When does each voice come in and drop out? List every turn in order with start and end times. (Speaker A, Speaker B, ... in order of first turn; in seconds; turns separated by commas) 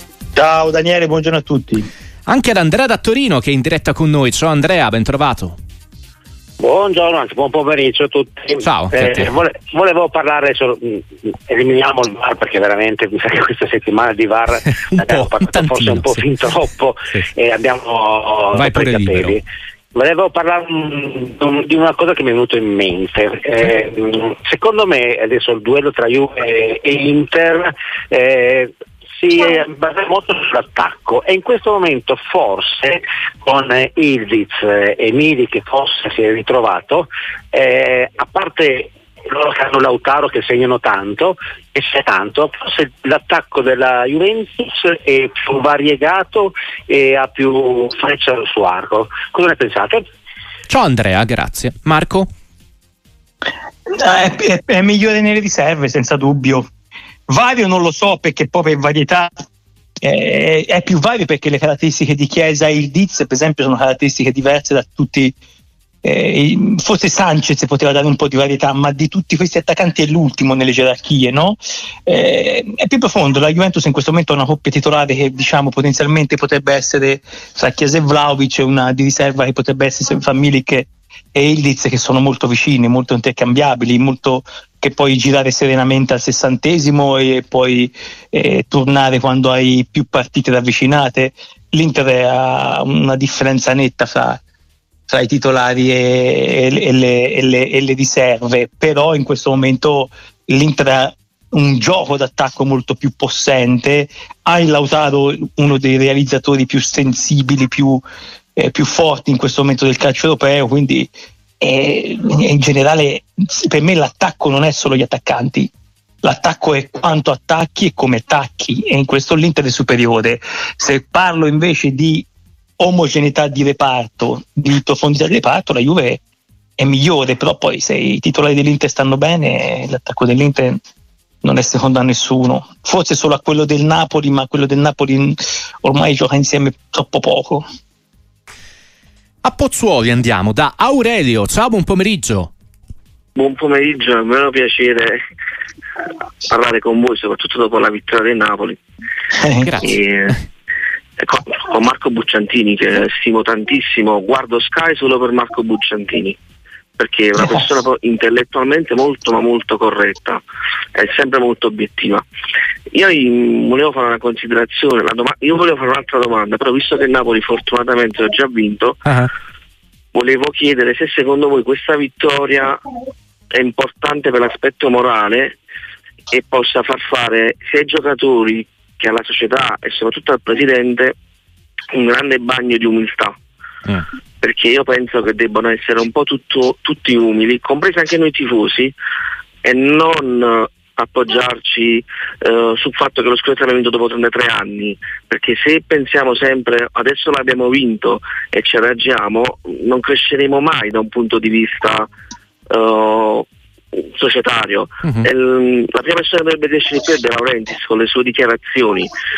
Speaker A: 0.3-1.9, Speaker B: 2.3-5.6, Speaker C: 6.6-19.4, Speaker B: 8.6-9.3, Speaker B: 14.8-16.2, Speaker B: 18.5-19.4, Speaker C: 19.9-50.1, Speaker B: 50.7-52.3, Speaker A: 53.9-56.7, Speaker A: 57.3-59.4, Speaker A: 60.0-65.3, Speaker A: 66.0-94.4, Speaker A: 95.1-108.0, Speaker A: 108.6-115.7, Speaker A: 116.2-122.3, Speaker A: 122.8-126.2, Speaker A: 126.8-130.8, Speaker A: 131.4-137.7, Speaker B: 139.4-142.5, Speaker D: 143.4-145.2, Speaker D: 146.5-148.8, Speaker A: 149.4-149.7, Speaker B: 149.6-149.9, Speaker D: 149.8-150.4, Speaker D: 151.2-156.4, Speaker D: 157.0-160.4, Speaker D: 161.0-162.2, Speaker D: 162.9-169.0, Speaker D: 170.1-172.8, Speaker D: 173.5-175.5, Speaker D: 176.3-181.2, Speaker D: 181.9-183.4, Speaker D: 184.4-188.9, Speaker D: 189.6-202.1, Speaker D: 202.7-209.1